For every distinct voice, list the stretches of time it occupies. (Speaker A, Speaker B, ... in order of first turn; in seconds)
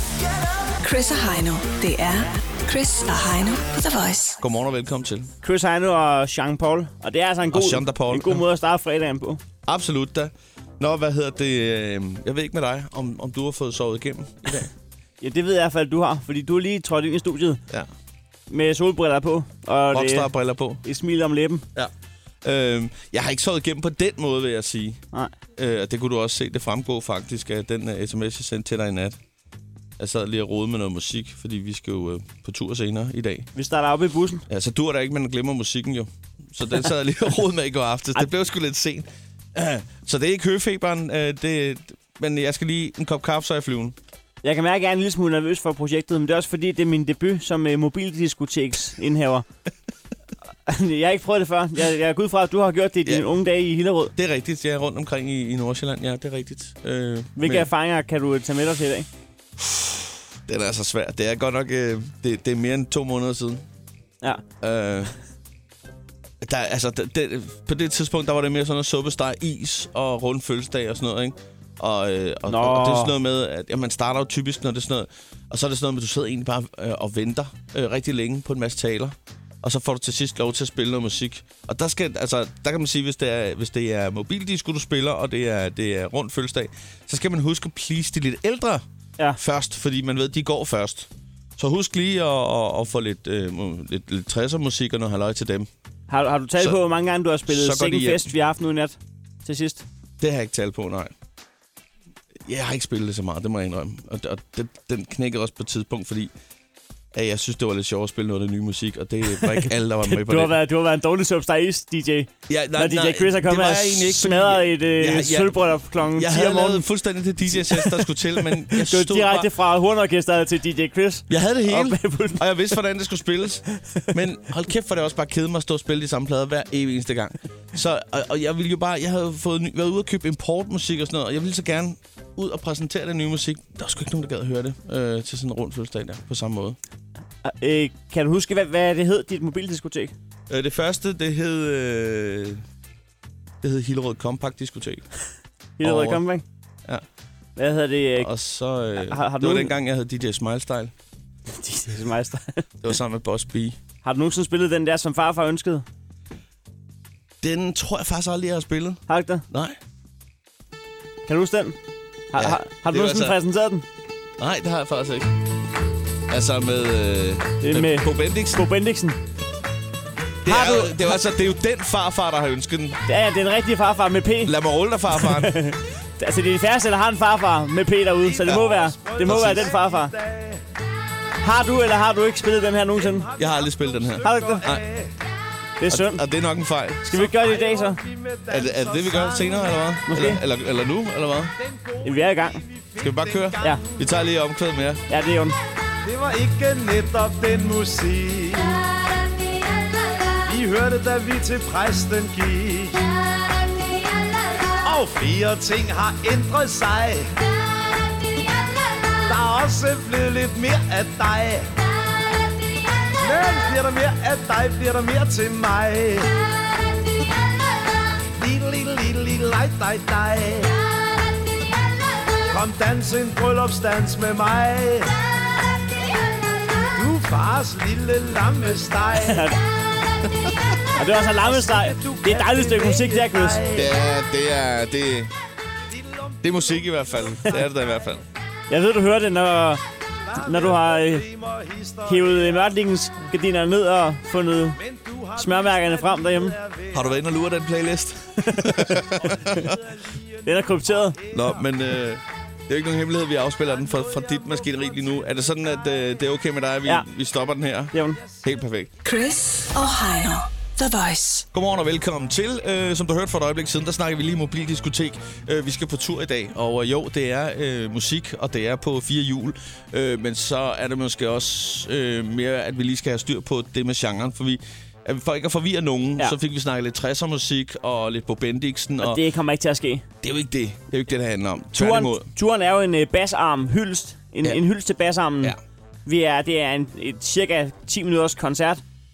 Speaker A: 0.8-4.4, 259.0-261.4
Speaker B: 4.4-5.3, 7.5-8.4, 9.7-14.7, 19.9-20.8, 22.4-25.0, 25.6-29.2, 30.0-33.5, 34.5-44.0, 54.1-57.7, 59.6-63.6, 64.6-65.1, 66.4-88.8, 89.4-95.7, 97.5-98.3, 100.2-101.1, 102.5-106.3, 107.1-110.5, 112.5-119.5, 121.3-136.8, 140.5-142.6, 143.6-145.1, 145.8-146.2, 148.2-150.9, 152.8-153.8, 157.4-159.8, 162.4-163.3, 164.4-165.3, 166.3-168.7, 170.4-173.0, 174.4-175.6, 179.2-179.7, 183.4-184.8, 185.9-187.2, 188.5-191.5, 193.0-195.0, 233.7-235.3, 236.4-238.2, 246.9-249.7, 251.3-258.9, 261.5-279.2, 280.2-282.3
Speaker C: 5.4-9.4, 15.2-17.6, 18.5-20.3, 20.8-21.6, 33.5-34.5, 44.4-49.5, 50.7-54.1, 57.4-59.1, 72.5-73.1, 96.1-99.8, 109.4-116.8, 117.5-118.1, 118.7-122.5, 137.4-140.1, 145.8-146.4, 147.6-148.3, 149.0-149.7, 151.5-152.7, 154.0-155.8, 159.1-159.5, 161.3-161.8, 162.3-163.8, 167.6-169.2, 170.4-171.0, 173.1-174.5, 175.2-180.1, 181.4-183.3, 184.2-184.6, 185.8-186.2, 187.1-188.0, 190.1-190.4, 192.0-192.6, 195.1-195.6, 229.2-229.6, 231.0-233.6, 238.7-239.8, 240.3-241.2, 242.1-244.8, 245.3-246.6, 248.5-249.2, 250.5-251.2, 257.9-258.2, 279.0-280.1, 281.8-288.8
Speaker D: 178.2-180.6, 183.0-185.1, 187.2-189.8, 191.6-193.9, 196.0-198.8, 200.5-203.1, 204.8-207.3, 209.2-211.7, 213.2-216.3, 218.3-220.8, 222.5-225.1, 226.9-229.5, 231.4-233.9, 235.9-238.2, 240.3-242.7, 244.8-247.2, 249.2-251.7, 253.9-254.5